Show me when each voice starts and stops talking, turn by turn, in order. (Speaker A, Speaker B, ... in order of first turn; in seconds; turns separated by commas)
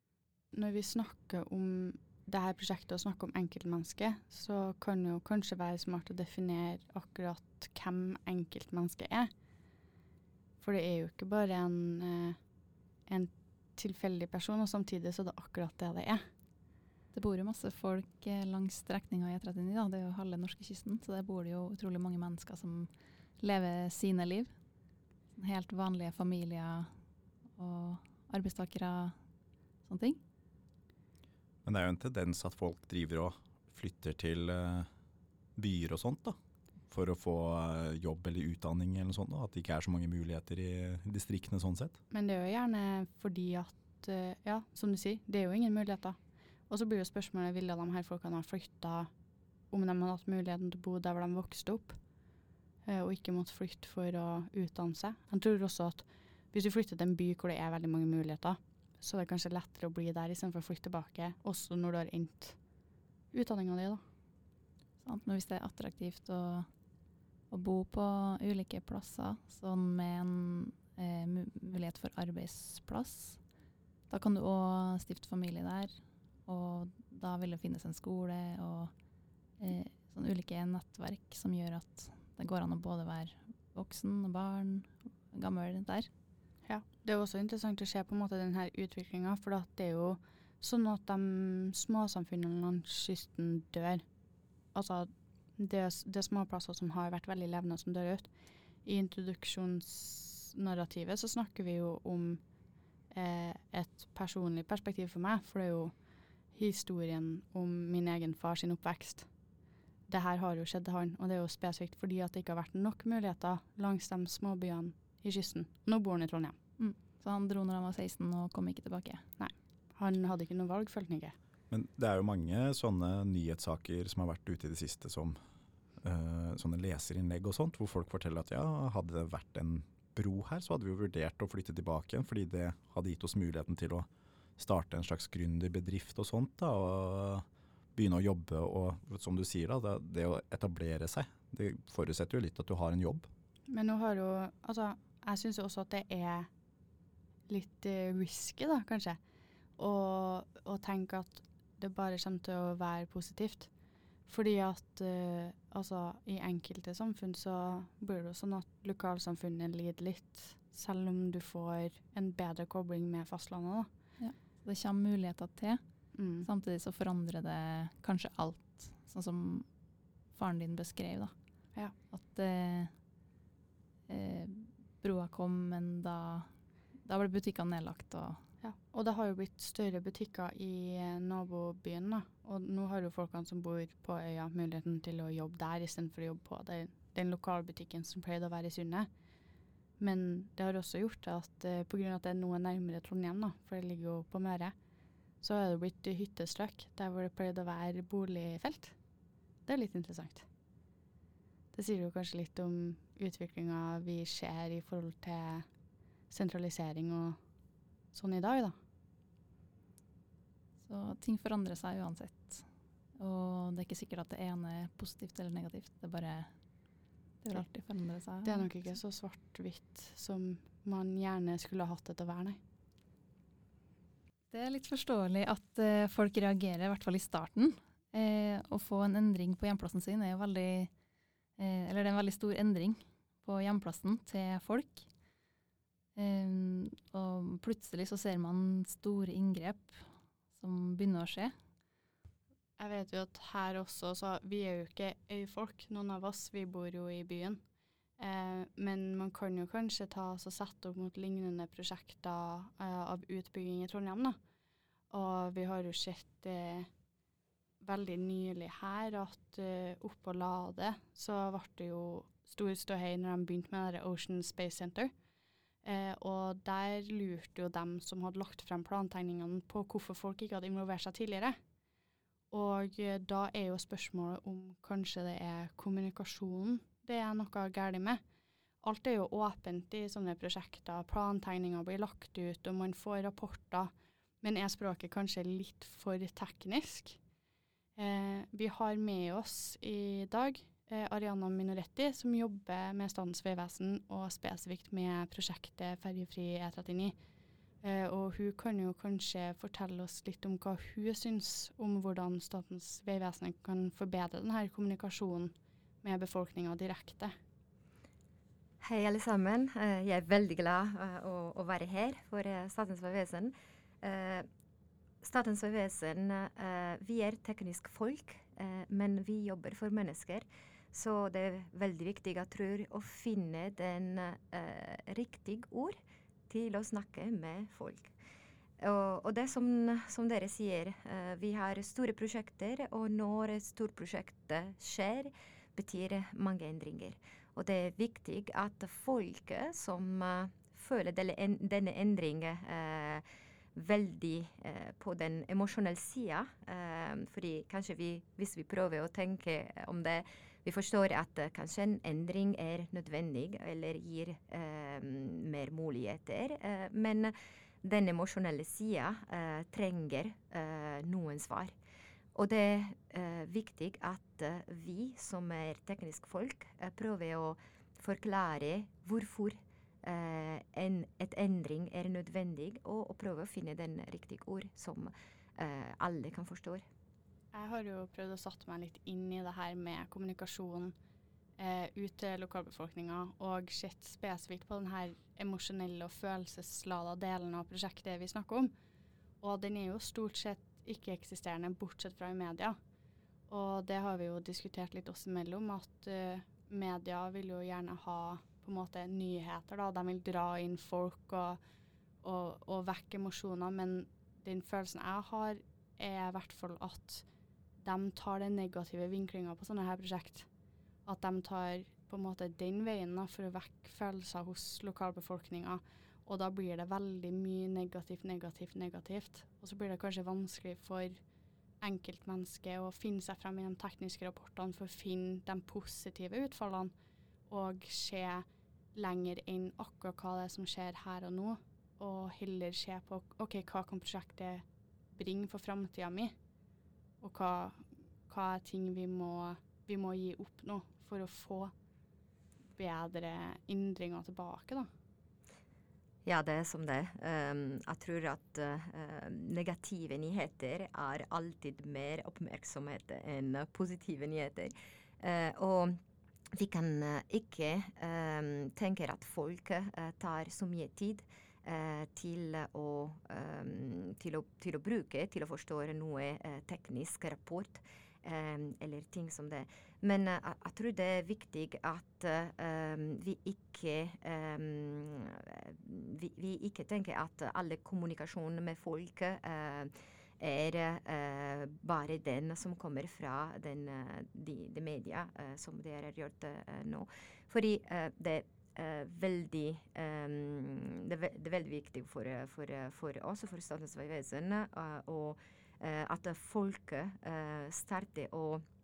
Speaker A: 0.5-9.3, Speaker A: 10.6-12.4, Speaker A: 13.1-16.2, Speaker B: 17.1-24.5, Speaker B: 25.4-26.9, Speaker B: 27.6-29.2, Speaker B: 29.8-30.2, Speaker C: 31.6-34.9, Speaker C: 35.5-36.4, Speaker C: 36.9-42.0, Speaker A: 42.1-46.2, Speaker A: 46.7-49.1, Speaker A: 49.7-52.0, Speaker A: 52.9-62.6, Speaker A: 63.3-64.0, Speaker B: 65.0-66.7, Speaker B: 67.5-73.4, Speaker B: 74.1-75.9, Speaker B: 76.5-78.9, Speaker B: 79.6-86.1, Speaker A: 86.7-94.0, Speaker A: 94.7-98.3, Speaker A: 98.8-102.4, Speaker A: 103.1-105.9, Speaker A: 106.5-109.3, Speaker A: 110.1-116.6, Speaker B: 116.8-119.2, Speaker A: 119.4-121.3, Speaker C: 121.7-125.4, Speaker C: 126.0-134.1, Speaker C: 134.6-143.3, Speaker A: 143.7-146.5, Speaker A: 147.5-149.2, Speaker A: 149.8-153.7, Speaker A: 154.3-163.9, Speaker B: 164.2-165.8, Speaker A: 166.1-166.5, Speaker B: 166.4-169.7, Speaker B: 170.3-171.3, Speaker B: 172.1-172.9, Speaker B: 174.1-176.5, Speaker B: 177.0-178.4, Speaker A: 178.6-189.1, Speaker A: 190.0-194.7, Speaker A: 195.4-198.9, Speaker A: 199.7-200.4, Speaker A: 201.7-205.7, Speaker A: 206.3-207.4, Speaker A: 208.1-208.8, Speaker B: 210.8-212.6, Speaker B: 213.2-216.5, Speaker B: 217.4-218.7, Speaker A: 218.4-222.6, Speaker B: 224.5-230.9, Speaker B: 231.6-235.1, Speaker B: 236.2-240.0, Speaker B: 240.6-241.5, Speaker A: 242.8-247.6, Speaker A: 248.2-254.4, Speaker A: 255.1-256.9, Speaker A: 257.8-265.1, Speaker A: 265.8-271.6, Speaker A: 272.5-278.2, Speaker A: 278.8-287.2, Speaker A: 288.0-297.1, Speaker A: 297.8-307.3, Speaker D: 308.8-314.5, Speaker D: 315.2-326.0, Speaker D: 326.5-328.1, Speaker D: 328.8-361.8, Speaker D: 362.3-376.8, Speaker A: 377.5-380.9, Speaker A: 381.6-388.7, Speaker A: 389.4-392.8, Speaker A: 393.5-401.6, Speaker A: 402.2-407.2, Speaker A: 407.8-410.5, Speaker A: 411.1-421.2, Speaker A: 421.8-426.9, Speaker A: 427.5-436.3, Speaker A: 437.2-441.7, Speaker A: 442.7-444.9, Speaker D: 446.2-456.0, Speaker D: 456.5-498.6